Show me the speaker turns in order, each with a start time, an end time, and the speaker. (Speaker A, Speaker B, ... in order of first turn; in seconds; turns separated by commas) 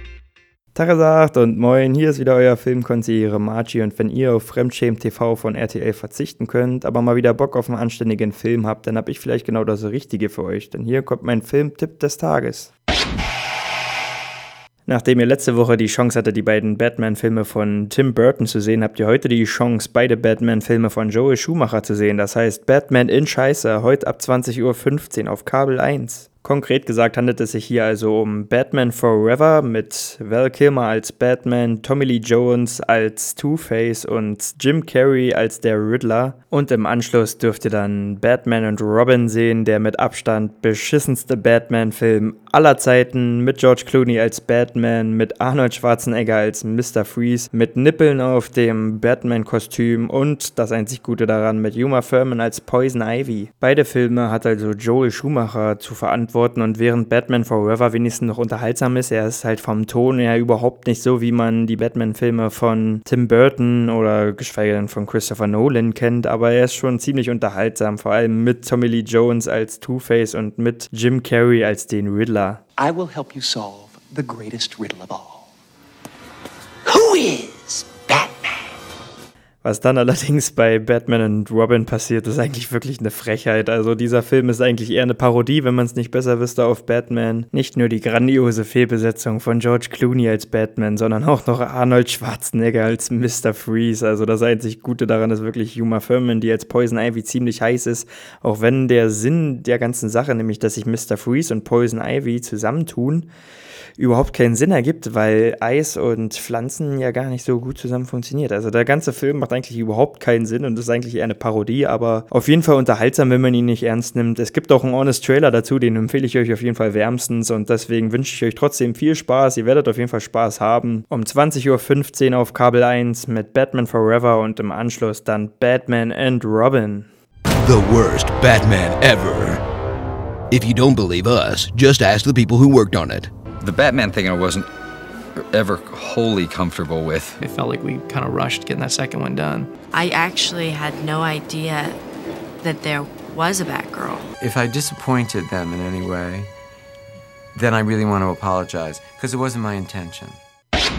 Speaker A: 0.7-12.7, Speaker A: 14.8-72.6, Speaker B: 72.8-75.5, Speaker B: 76.9-78.5, Speaker A: 79.6-103.3, Speaker A: 104.0-127.1, Speaker C: 127.6-129.6, Speaker C: 130.5-133.3, Speaker D: 133.6-134.7, Speaker D: 135.5-137.4, Speaker E: 137.4-139.7, Speaker F: 139.9-142.0, Speaker F: 142.6-144.3, Speaker G: 144.4-146.5, Speaker G: 147.5-150.4